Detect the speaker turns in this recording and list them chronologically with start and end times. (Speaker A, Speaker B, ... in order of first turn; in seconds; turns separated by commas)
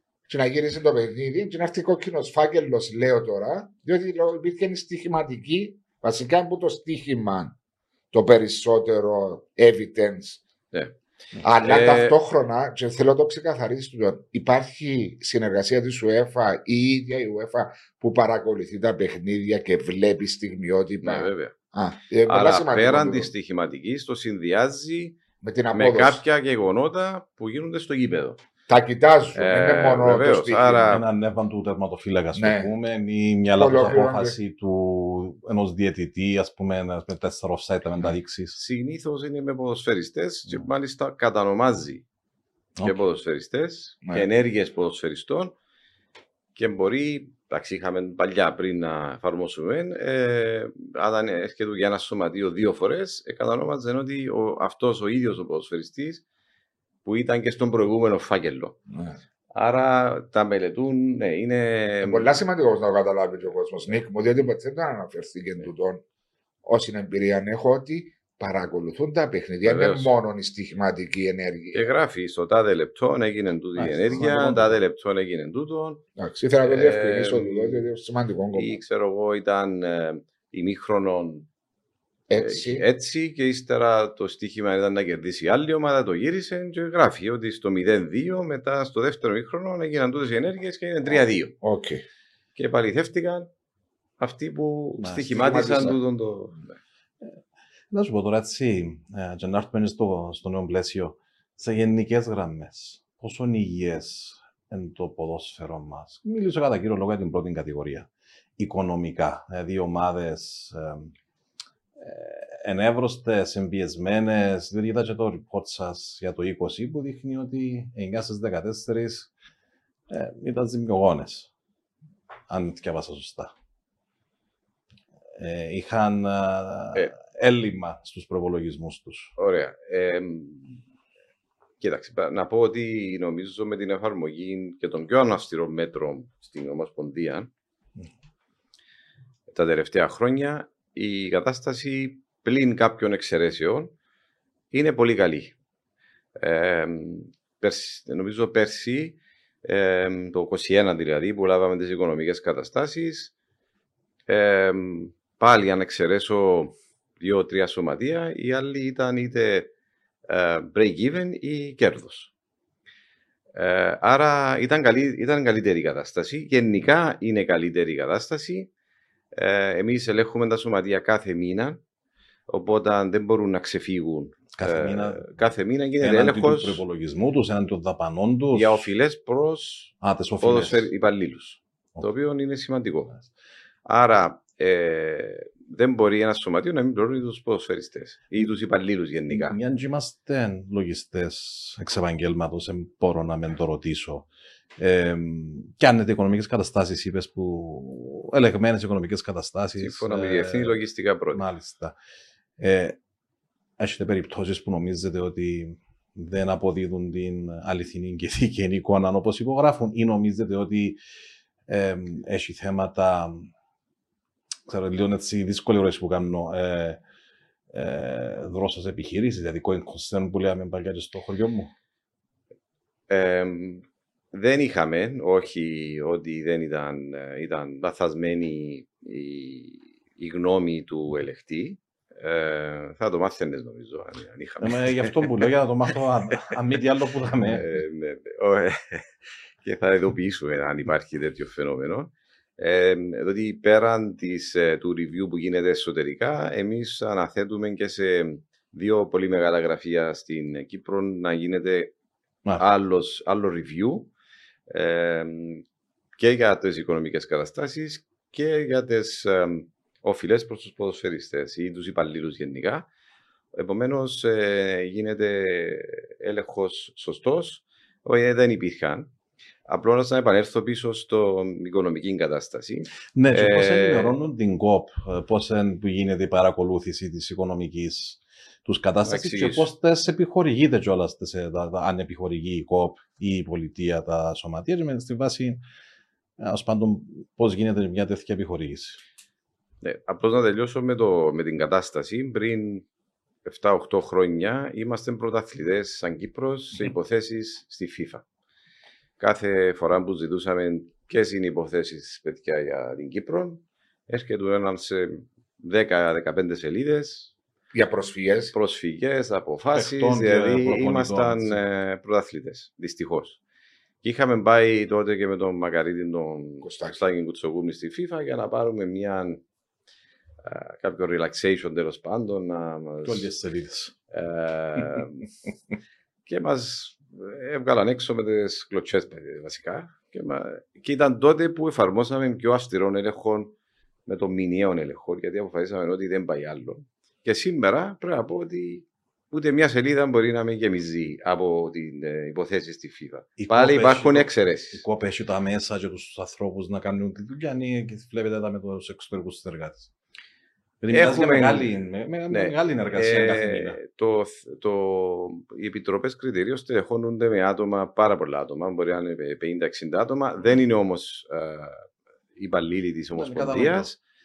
Speaker A: 0.3-7.5, Speaker A: 8.1-10.4, Speaker A: 11.4-23.3, Speaker B: 11.6-12.2, Speaker B: 21.0-21.5, Speaker B: 22.2-25.2, Speaker A: 25.4-26.2, Speaker B: 25.7-28.4, Speaker A: 28.7-30.9, Speaker B: 29.3-31.1, Speaker C: 30.9-38.6, Speaker A: 32.3-32.7, Speaker A: 33.5-34.4, Speaker B: 38.5-42.0, Speaker B: 42.8-45.5, Speaker B: 46.5-56.2, Speaker B: 57.0-58.8, Speaker A: 58.9-59.2, Speaker B: 59.5-62.4, Speaker A: 62.0-66.0, Speaker A: 66.6-71.9, Speaker B: 69.6-70.1, Speaker B: 71.7-76.0, Speaker C: 73.8-74.8, Speaker A: 76.2-78.8, Speaker B: 76.6-77.8, Speaker B: 78.5-81.5, Speaker A: 82.3-82.8, Speaker B: 82.4-91.5, Speaker A: 91.6-92.0, Speaker B: 92.5-93.5, Speaker B: 94.2-96.8, Speaker C: 95.0-95.6, Speaker A: 95.3-96.0, Speaker C: 97.9-111.1, Speaker C: 112.0-119.3, Speaker C: 120.1-121.5, Speaker C: 122.5-123.5, Speaker C: 125.3-129.3, Speaker B: 129.4-130.8, Speaker B: 131.8-137.5, Speaker B: 139.5-143.9, Speaker B: 144.7-145.5, Speaker B: 146.4-153.3, Speaker B: 154.3-159.7, Speaker B: 160.3-162.3, Speaker B: 163.6-168.7, Speaker B: 169.3-171.8, Speaker B: 172.5-176.8, Speaker C: 174.5-175.4, Speaker C: 176.0-178.8, Speaker B: 178.5-183.1, Speaker C: 180.0-180.8, Speaker B: 183.8-189.6, Speaker C: 189.3-200.8, Speaker B: 199.8-201.4, Speaker C: 201.3-201.9, Speaker C: 202.6-203.0, Speaker C: 203.8-211.0, Speaker C: 211.7-213.5, Speaker C: 214.7-217.0, Speaker C: 217.7-221.7, Speaker B: 223.1-235.9, Speaker C: 234.6-237.7, Speaker B: 237.5-251.9, Speaker B: 252.6-254.1, Speaker B: 254.7-255.6, Speaker B: 256.2-262.9, Speaker B: 263.5-269.1, Speaker B: 269.7-274.1, Speaker C: 273.1-285.6, Speaker B: 279.0-279.7, Speaker C: 286.4-289.0, Speaker B: 289.8-292.8, Speaker B: 293.4-298.2, Speaker B: 299.2-307.3, Speaker A: 307.7-308.5, Speaker B: 308.5-313.4, Speaker C: 309.7-311.6, Speaker B: 314.0-319.4, Speaker A: 316.6-317.0, Speaker B: 320.4-323.3, Speaker C: 323.0-323.9, Speaker B: 324.1-325.2, Speaker B: 326.2-333.5, Speaker B: 334.1-344.8, Speaker C: 343.4-349.9, Speaker C: 350.8-353.8, Speaker B: 350.9-351.7, Speaker B: 352.3-364.0, Speaker C: 363.1-363.9